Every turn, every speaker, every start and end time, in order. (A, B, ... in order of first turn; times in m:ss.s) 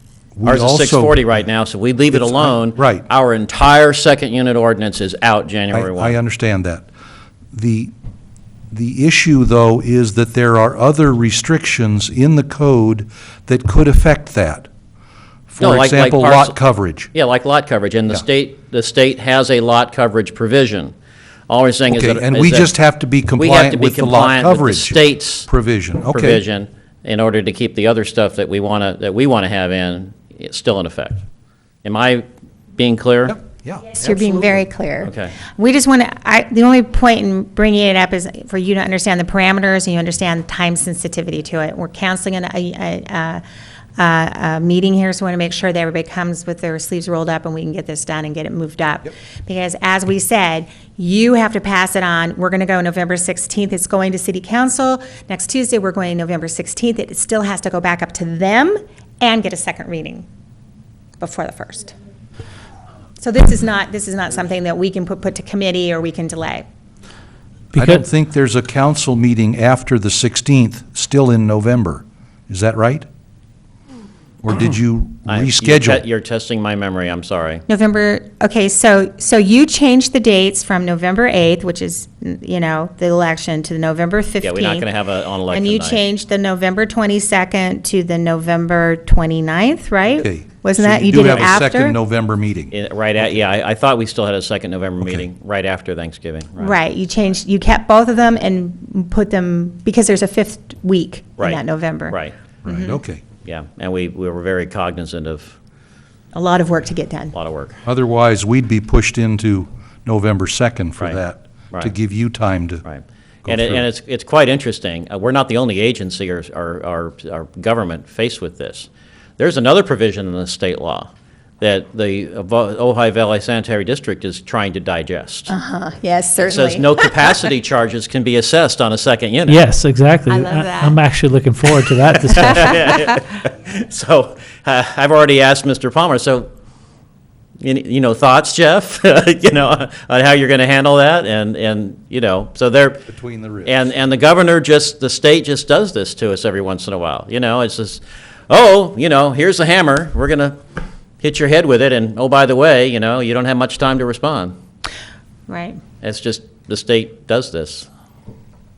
0:00.4-0:01.2 A
0:00.4-0:06.2 B
0:02.1-0:03.0 A
0:05.7-0:06.9 A
0:07.5-0:07.9 A
0:08.7-0:14.7 A
0:15.5-0:17.1 A
0:15.6-0:16.6 B
0:17.1-0:20.9 B
0:21.5-0:22.7 B
0:21.9-0:26.4 A
0:23.4-0:25.5 B
0:26.1-0:31.2 B
0:31.8-0:33.4 B
0:33.3-0:33.9 A
0:33.9-0:43.4 C
0:34.0-0:35.4 B
0:44.0-1:00.2 C
1:01.2-1:01.9 C
1:03.2-1:06.6 C
1:07.7-1:08.0 D
1:07.7-1:13.0 A
1:14.4-1:16.0 A
1:15.2-1:17.6 B
1:17.7-1:24.9 C
1:24.4-1:26.0 B
1:25.5-1:32.0 C
1:30.2-1:32.7 A
1:31.1-1:31.6 B
1:32.7-1:36.8 B
1:36.6-1:43.0 C
1:41.4-1:42.3 B
1:42.6-1:43.2 A
1:43.4-1:45.6 B
1:46.3-1:47.3 C
1:47.3-1:47.8 B
1:47.8-1:52.8 A
1:52.8-2:01.1 B
1:53.4-1:53.8 A
2:01.6-2:05.5 B
2:05.5-2:07.1 C
2:06.4-2:09.6 B
2:09.5-2:13.0 D
2:10.3-2:11.0 C
2:12.3-2:16.5 B
2:12.6-2:13.2 C
2:17.6-2:23.0 B
2:23.1-2:23.8 A
2:23.6-2:30.6 B
2:31.2-2:34.5 B
2:35.5-2:35.8 C
2:36.0-2:37.9 B